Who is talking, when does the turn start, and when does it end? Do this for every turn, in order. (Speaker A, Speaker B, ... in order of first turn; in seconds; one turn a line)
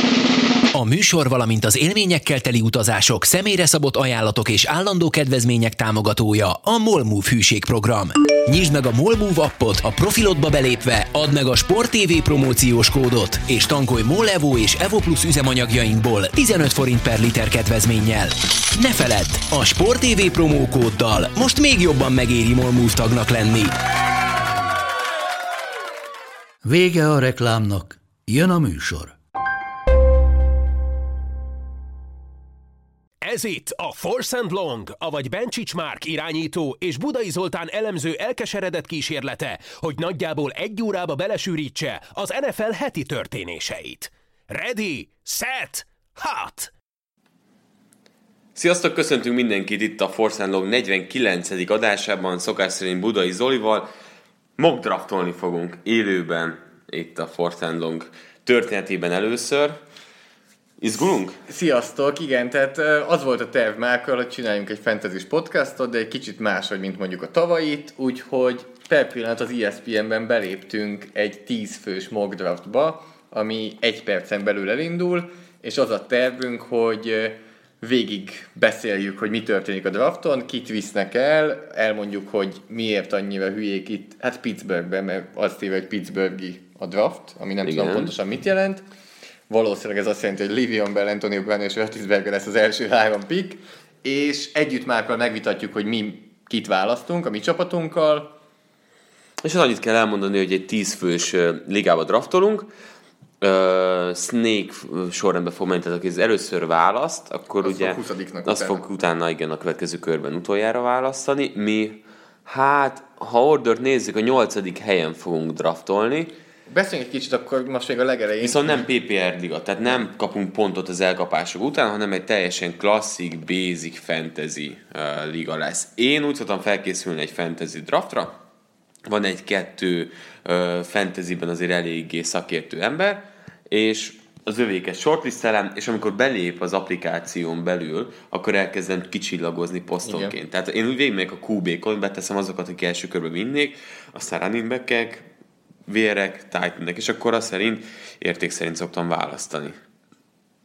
Speaker A: 0.7-23.7
Speaker B: 26.6-29.1
Speaker C: 33.2-46.7
Speaker D: 48.5-53.9
Speaker D: 54.6-59.8
Speaker D: 60.8-61.4
Speaker E: 61.5-88.8
Speaker D: 87.6-88.1
Speaker E: 89.5-98.3
Speaker D: 99.4-102.7
Speaker D: 103.4-116.3
Speaker E: 107.6-108.9
Speaker E: 116.7-118.8
Speaker D: 118.4-128.3
Speaker D: 129.0-145.3
Speaker E: 140.0-140.3
Speaker D: 145.9-149.8